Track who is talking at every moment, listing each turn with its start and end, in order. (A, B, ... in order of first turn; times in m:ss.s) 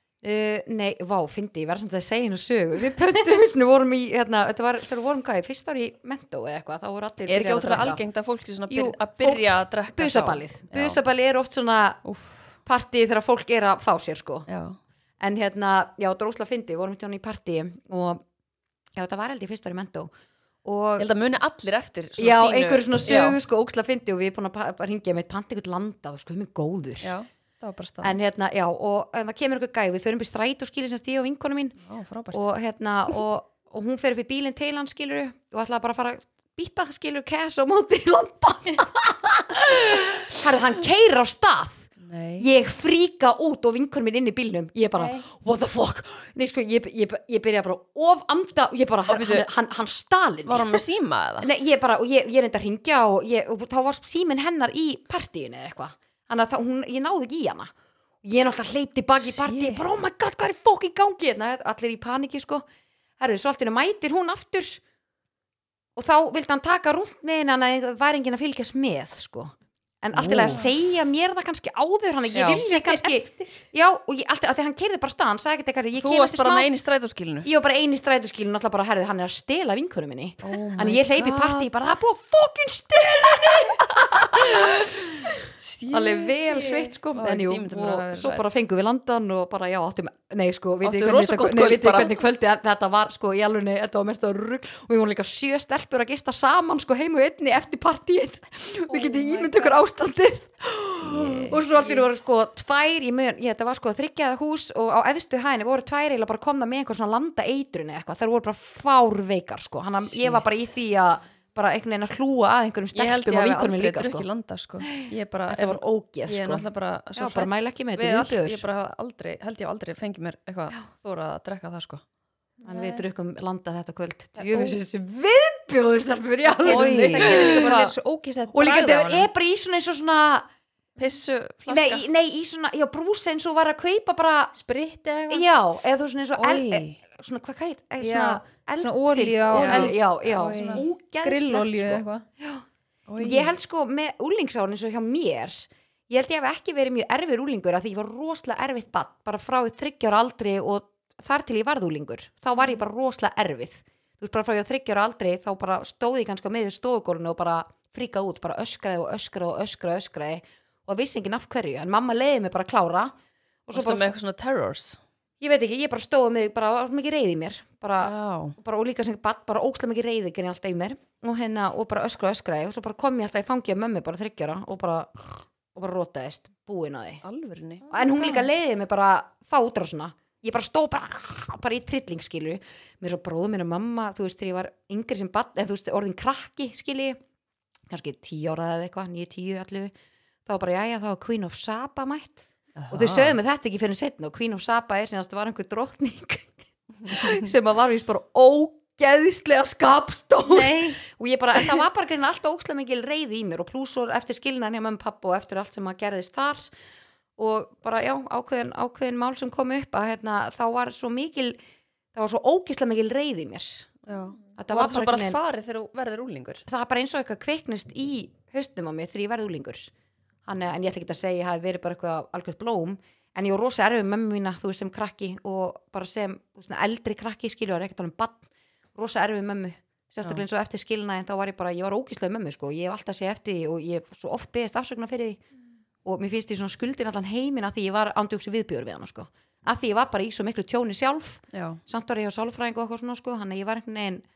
0:00.2-0:08.0 A
0:07.3-0:11.0 B
0:08.7-0:12.0 A
0:12.0-0:12.6 B
0:12.6-0:14.5 A
0:14.5-0:14.8 B
0:15.2-0:18.2 A
0:18.9-0:20.1 A
0:20.6-0:21.1 A
0:21.0-0:23.4 B
0:22.2-0:27.1 A
0:27.0-0:28.2 B
0:28.0-0:31.8 A
0:31.8-0:32.5 B
0:32.3-0:50.8 A
0:42.0-0:42.5 B
0:45.0-0:45.2 C
0:49.1-0:49.5 B
0:50.4-0:51.5 B
0:51.4-0:57.7 A
0:58.2-1:02.6 A
0:59.2-0:59.8 B
1:03.2-1:04.8 A
1:06.0-1:16.7 A
1:10.1-1:10.6 B
1:12.3-1:12.6 B
1:12.3-1:13.6 C
1:16.0-1:17.5 B
1:17.4-1:25.3 A
1:20.4-1:21.7 B
1:23.8-1:28.4 B
1:25.9-1:54.3 A
1:30.8-1:32.2 B
1:38.9-1:39.8 C
1:41.0-1:41.6 B
1:41.8-1:42.0 C
1:50.0-1:50.4 B
1:52.9-2:02.0 B
1:54.8-1:58.6 A
2:02.6-2:03.0 C
2:02.7-2:07.8 A
2:04.4-2:04.7 C
2:06.6-2:07.9 B
2:06.6-2:09.3 C
2:08.5-2:10.5 A
2:11.0-2:12.0 B
2:11.7-2:14.5 A
2:14.5-2:15.4 C
2:15.3-2:22.6 A
2:16.4-2:17.0 B
2:18.0-2:22.2 C
2:19.5-2:20.8 B
2:23.1-2:23.5 B
2:23.2-2:43.1 A
2:43.7-2:44.1 A
2:43.7-2:45.0 B
2:45.4-2:57.2 A
2:48.0-2:48.6 B
2:57.2-2:57.9 B
2:57.9-3:07.2 A
2:57.9-2:58.5 C
3:07.9-3:09.9 A
3:10.4-3:16.5 A
3:12.8-3:13.4 B
3:17.0-3:26.7 A
3:20.5-3:21.0 C
3:27.4-3:31.6 A
3:32.1-3:34.0 A
3:34.1-3:36.6 B
3:34.6-3:35.4 A
3:36.7-3:39.9 A
3:40.4-3:55.4 A
3:56.0-4:04.2 A
4:01.5-4:01.8 B